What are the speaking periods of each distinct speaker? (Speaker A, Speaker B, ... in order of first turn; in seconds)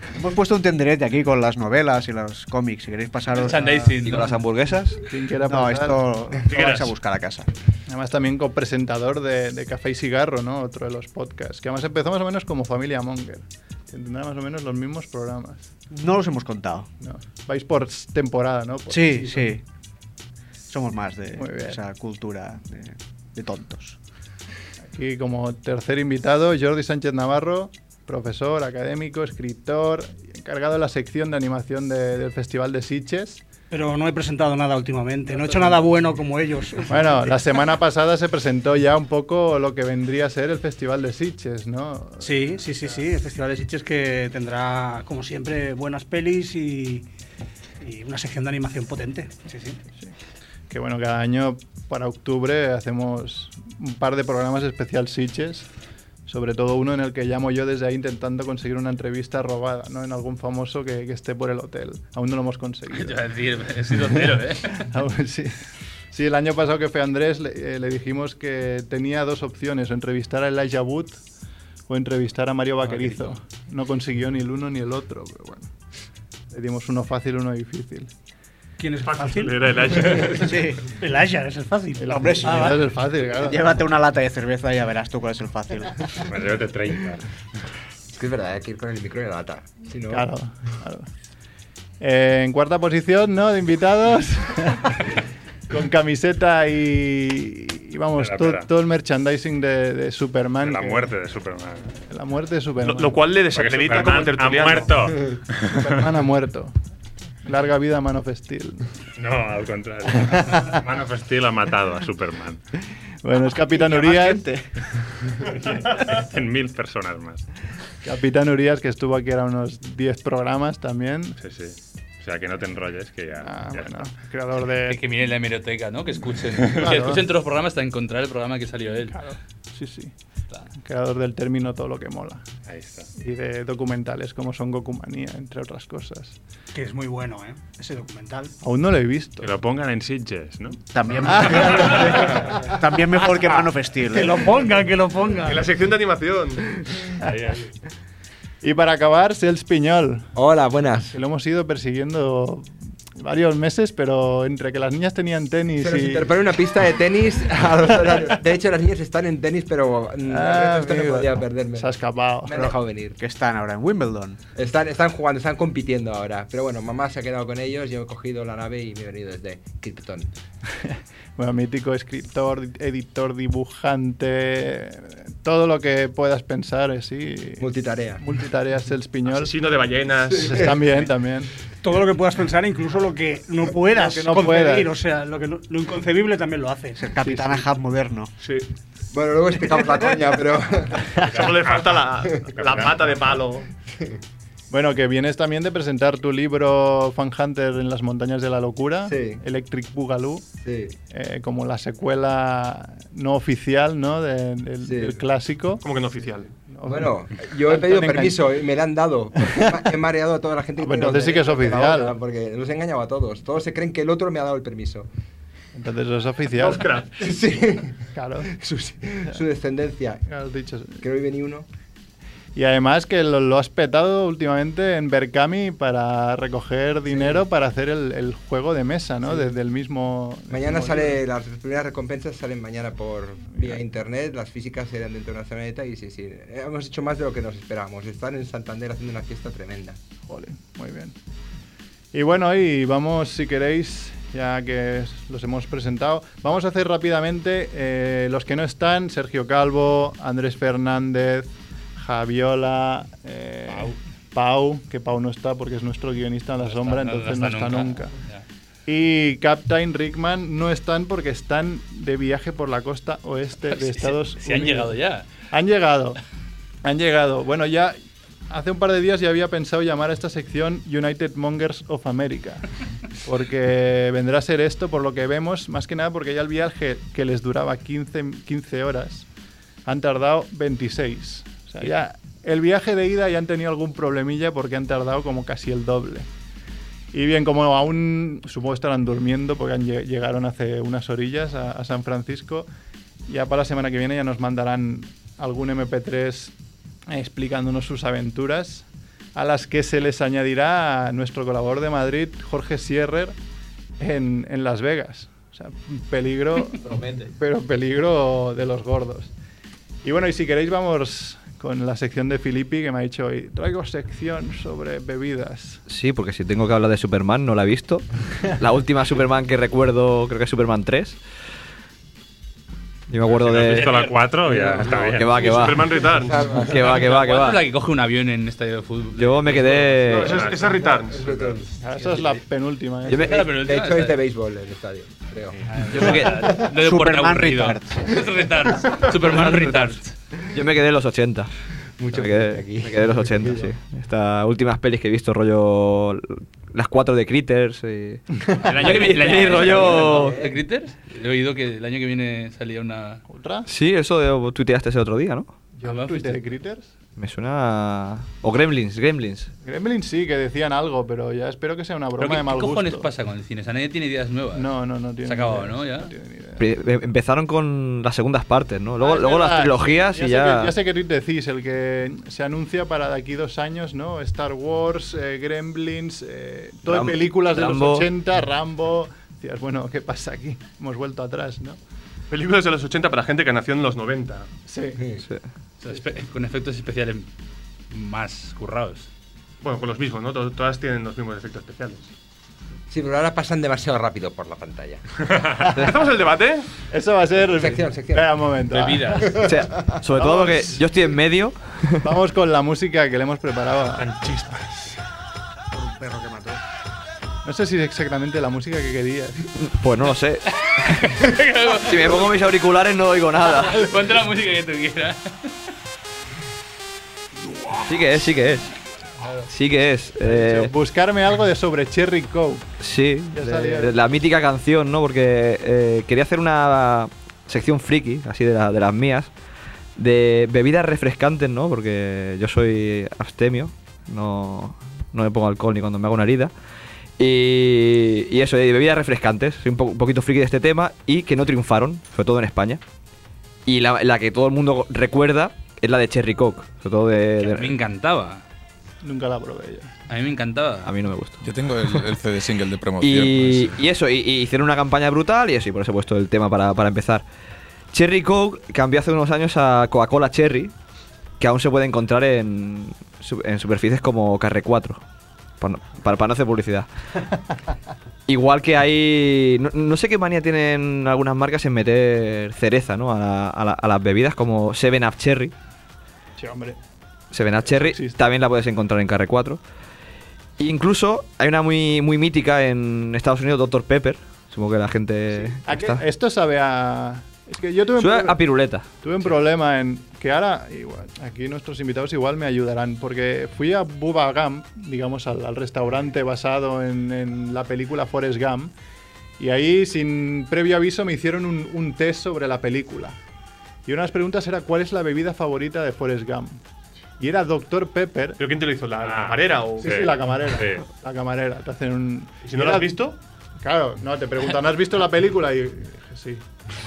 Speaker A: 0.2-3.9, 5.5-7.5, 15.9-16.9, 18.9-19.6, 20.7-24.0, 80.4-80.9, 82.1-86.1, 113.7-114.6, 140.9-144.5, 163.2-164.4, 187.0-188.3, 336.7-338.0, 405.7-406.6
Speaker B: 3.3-4.3, 62.9-64.9, 72.9-73.2, 124.9-129.2, 253.7-254.0, 256.6-258.4, 263.7-265.2, 326.8-330.3, 333.1-334.2, 335.7-340.1, 348.6-353.2, 355.8-356.4, 362.2-364.7, 365.2-366.1, 385.8-387.3, 387.9-389.1, 398.7-399.4, 411.0-412.3, 413.5-415.5, 447.4-448.4, 450.1-450.9
Speaker C: 3.5-3.8, 5.0-6.4, 7.9-15.7, 17.0-19.5, 21.3-21.8, 24.9-33.4, 35.5-35.8, 36.9-43.0, 50.7-55.7, 56.3-63.3, 64.7-65.6, 66.1-71.2, 71.9-75.7, 76.5-78.1, 82.0-83.7, 90.1-91.1, 92.0-95.1, 95.7-101.1, 102.1-103.2, 105.7-106.7, 107.5-108.8, 113.2-114.5, 118.0-121.4, 123.4-125.0, 126.7-127.2, 129.1-130.1, 130.8-132.4, 133.2-136.4, 138.6-139.5, 148.6-150.3, 151.1-156.3, 160.3-162.8, 170.8-177.7, 178.2-179.6, 180.4-181.5, 183.9-184.9, 187.2-187.6, 194.7-200.5, 201.1-205.8, 206.7-207.1, 207.7-208.4, 210.8-212.2, 215.7-216.9, 218.1-218.5, 220.3-221.0, 222.6-231.2, 233.5-233.8, 240.3-241.2, 242.1-258.1, 258.9-265.0, 265.5-266.2, 266.8-268.0, 268.5-279.3, 279.9-286.3, 287.1-292.7, 293.3-296.5, 297.1-303.4, 304.0-309.3, 310.0-315.8, 331.8-333.3, 353.3-353.7, 355.8-356.9, 359.6-363.1, 364.5-366.7, 369.0-381.8, 384.7-385.0, 396.9-399.5, 400.1-400.8, 402.0-404.2, 407.4-409.5, 420.2-422.7, 423.3-424.0, 449.0-449.9, 476.4-476.8, 477.7-478.2, 485.4-488.4, 489.0-498.7, 499.4-503.2, 503.9-506.6, 507.2-508.4, 509.8-513.0, 513.6-516.4
Speaker D: 4.0-5.0, 315.9-321.2, 323.1-324.1, 325.1-327.6, 329.2-330.5, 333.1-333.4, 335.9-336.6, 339.4-339.8, 340.5-341.5, 342.1-350.4, 353.7-355.5, 357.2-359.5, 366.6-370.8, 376.9-378.1, 399.4-402.1, 409.6-413.9, 417.9-418.7, 419.5-420.7, 422.8-429.3, 430.0-436.5, 437.2-442.8, 443.7-447.8, 450.9-452.1, 453.0-457.2, 457.9-460.7, 461.4-465.0, 465.6-466.9, 468.3-475.5, 477.3-479.6, 480.6-486.0, 488.0-488.9
Speaker E: 6.5-6.9, 79.0-80.6, 102.8-104.9, 145.4-146.8, 179.3-180.6, 188.4-188.7, 191.3-193.7, 205.8-206.5, 216.6-217.1, 323.6-324.0, 325.3-326.4, 330.1-331.6, 382.3-384.5, 389.6-392.1, 395.6-396.7, 404.2-404.9, 508.4-510.0, 512.4-513.2
Speaker F: 33.7-37.4, 42.2-47.1, 47.8-49.8, 78.8-80.3, 81.0-82.9, 136.7-138.5, 144.1-145.7, 181.8-187.1
Speaker G: 86.2-87.2, 98.2-98.7, 100.6-101.9, 103.5-106.0, 109.2-112.6, 115.5-117.5, 121.4-124.1, 132.7-133.1, 139.4-140.8, 147.2-147.7, 191.3-193.2, 323.3-325.4, 330.3-330.7, 509.1-510.8
Speaker H: 88.1-90.3, 150.3-151.1, 155.8-163.2, 164.6-170.3, 177.6-178.2, 189.1-191.1, 199.1-199.4, 200.6-200.9, 204.8-205.2, 206.9-215.1, 217.2-218.0, 218.5-220.2, 221.0-221.7, 227.1-227.4, 229.3-229.5, 230.5-240.0, 324.4-325.1, 326.1-326.9, 330.8-331.7, 333.2-336.2, 342.0-343.7, 349.0-350.6, 392.9-395.0, 397.5-398.4, 399.3-399.6
Speaker I: 451.4-453.8